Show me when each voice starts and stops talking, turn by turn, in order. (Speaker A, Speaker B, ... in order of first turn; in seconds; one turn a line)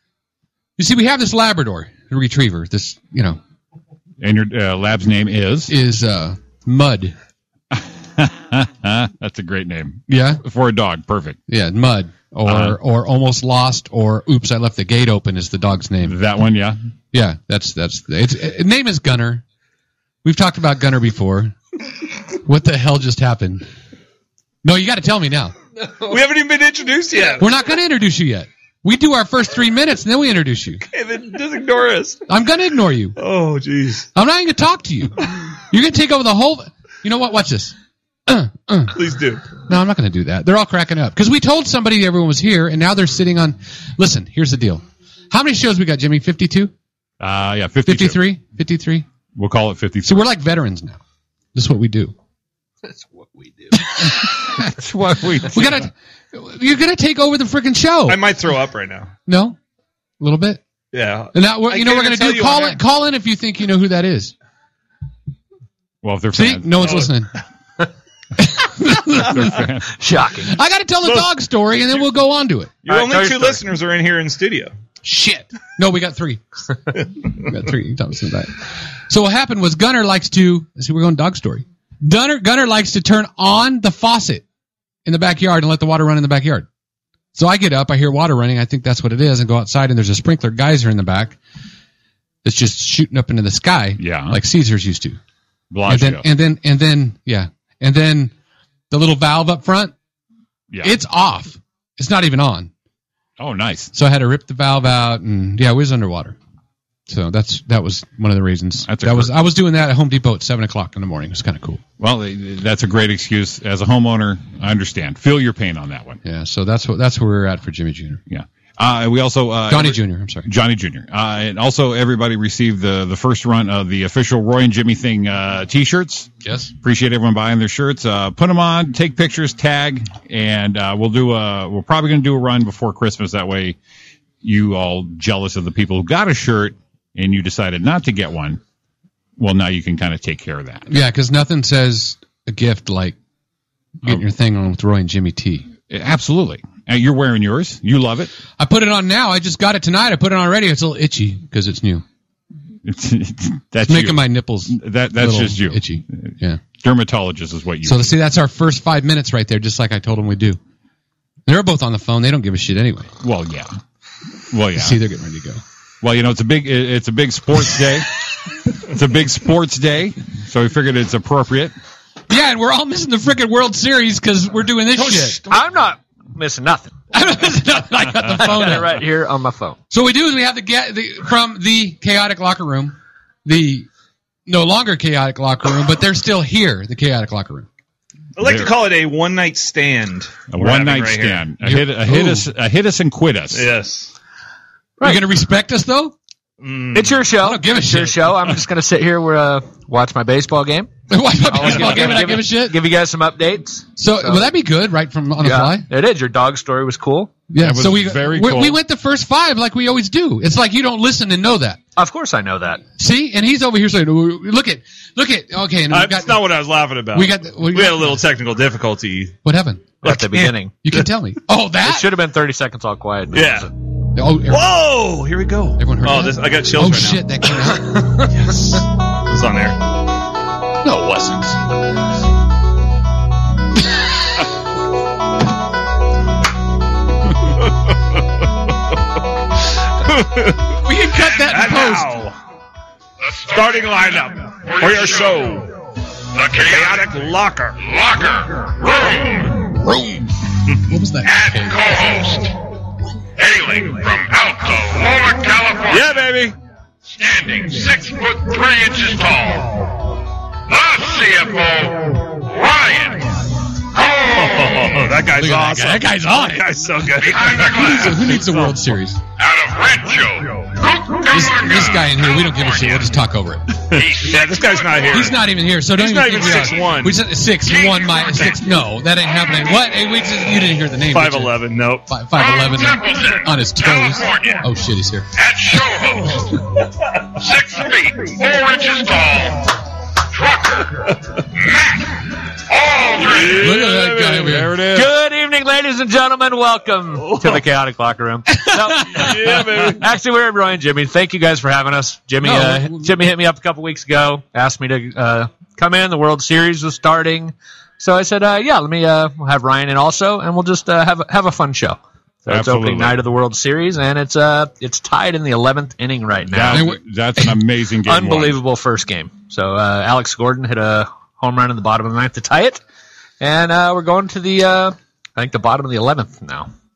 Speaker A: 0.8-3.4
Speaker B: 4.2-5.7
Speaker A: 5.7-7.1
Speaker B: 7.7-11.4
Speaker A: 10.1-10.4
Speaker A: 11.5-16.2
Speaker B: 12.4-12.8
Speaker B: 16.0-16.8
Speaker A: 17.1-19.4
Speaker A: 20.2-21.6
Speaker A: 22.4-23.6
Speaker A: 24.6-25.5
Speaker C: 26.1-27.5
Speaker A: 27.4-30.8
Speaker C: 30.9-32.2
Speaker A: 32.3-33.1
Speaker C: 33.2-34.1
Speaker A: 34.1-35.2
Speaker A: 35.7-37.7
Speaker A: 38.3-39.0
Speaker C: 38.9-39.4
Speaker A: 39.7-46.7
Speaker B: 47.2-48.2
Speaker A: 47.9-49.0
Speaker B: 49.4-50.3
Speaker A: 50.0-51.0
Speaker A: 51.5-52.1
Speaker D: 52.8-53.9
Speaker B: 54.0-55.9
Speaker A: 55.5-58.2
Speaker C: 58.1-59.1
Speaker A: 59.3-59.6
Speaker A: 60.2-60.6
Speaker C: 60.9-62.8
Speaker A: 61.3-64.3
Speaker B: 66.0-67.0
Speaker A: 66.3-67.3
Speaker A: 68.4-69.6
Speaker B: 69.1-69.9
Speaker D: 70.0-70.6
Speaker A: 70.5-72.7
Speaker C: 72.8-74.7
Speaker D: 72.8-73.6
Speaker A: 75.0-76.4
Speaker A: 77.3-78.6
Speaker A: 79.1-84.4
Speaker A: 85.0-86.7
Speaker A: 87.3-91.4
Speaker A: 92.4-95.2
Speaker B: 94.0-94.4
Speaker B: 95.7-96.2
Speaker A: 95.9-98.3
Speaker A: 98.9-99.9
Speaker A: 100.8-102.7
Speaker B: 103.4-103.9
Speaker A: 103.9-106.3
Speaker A: 107.1-111.8
Speaker B: 108.9-109.3
Speaker B: 112.0-116.2
Speaker A: 116.2-118.2
Speaker B: 118.3-126.3
Speaker A: 119.7-120.5
Speaker A: 126.4-126.7
Speaker B: 126.8-133.8
Speaker B: 134.4-138.6
Speaker B: 139.4-140.9
Speaker A: 140.9-143.2
Speaker A: 144.0-145.7
Speaker B: 145.9-148.3
Speaker A: 148.6-152.0
Speaker B: 152.8-158.2
Speaker A: 153.9-156.6
Speaker A: 157.8-160.6
Speaker A: 161.4-163.1
Speaker B: 163.2-163.7
Speaker B: 164.5-165.0
Speaker A: 164.8-165.6
Speaker B: 166.0-168.1
Speaker B: 168.8-171.7
Speaker A: 172.3-175.4
Speaker D: 175.0-176.9
Speaker A: 177.1-179.0
Speaker D: 178.3-179.8
Speaker A: 179.9-183.9
Speaker A: 184.5-187.7
Speaker C: 188.3-191.4
Speaker B: 188.4-188.7
Speaker B: 190.5-193.7
Speaker A: 191.6-192.5
Speaker C: 193.5-194.1
Speaker D: 195.0-195.2
Speaker A: 195.0-196.1
Speaker C: 196.6-197.3
Speaker D: 196.9-200.9
Speaker A: 197.4-198.2
Speaker A: 201.1-202.8
Speaker D: 201.4-204.5
Speaker A: 204.0-205.8
Speaker D: 205.4-207.3
Speaker A: 207.5-211.8
Speaker B: 207.6-208.8
Speaker D: 211.9-212.8
Speaker A: 213.0-216.4
Speaker C: 215.9-219.4
Speaker A: 217.1-218.2
Speaker A: 219.4-219.8
Speaker C: 220.0-220.5
Speaker D: 220.0-220.7
Speaker A: 220.8-222.1
Speaker D: 221.8-223.7
Speaker C: 223.3-223.7
Speaker A: 224.1-224.7
Speaker C: 224.5-227.4
Speaker A: 225.8-228.5
Speaker C: 228.4-228.7
Speaker C: 229.3-229.8
Speaker A: 230.8-231.6
Speaker C: 240.0-240.8
Speaker A: 240.8-242.2
Speaker C: 241.4-242.4
Speaker C: 243.4-245.7
Speaker C: 246.4-247.9
Speaker E: 248.0-248.5
Speaker E: 249.0-249.4
Speaker A: 249.9-250.2
Speaker A: 250.8-252.2
Speaker E: 251.9-252.5
Speaker E: 253.4-255.9
Speaker C: 255.8-256.5
Speaker E: 257.2-259.6
Speaker E: 260.7-262.0
Speaker E: 262.6-263.2
Speaker C: 264.0-268.4
Speaker A: 265.4-266.7
Speaker E: 267.4-267.7
Speaker A: 267.6-269.2
Speaker E: 269.4-270.5
Speaker A: 271.2-273.8
Speaker E: 271.4-272.5
Speaker C: 273.9-275.4
Speaker E: 274.1-274.8
Speaker A: 275.1-281.5
Speaker C: 275.9-277.2
Speaker C: 281.1-282.1
Speaker A: 282.1-285.3
Speaker E: 283.9-284.6
Speaker E: 285.4-286.3
Speaker E: 287.5-289.5
Speaker E: 292.8-293.4
Speaker C: 293.2-294.4
Speaker A: 293.4-294.8
Speaker B: 294.2-295.1
Speaker D: 294.8-316.9
Speaker C: 297.2-297.6
Speaker C: 299.1-300.0
Speaker A: 302.4-303.1
Speaker B: 312.5-313.2
Speaker B: 316.5-318.6
Speaker A: 316.7-317.0
Speaker D: 318.0-322.8
Speaker D: 323.4-326.7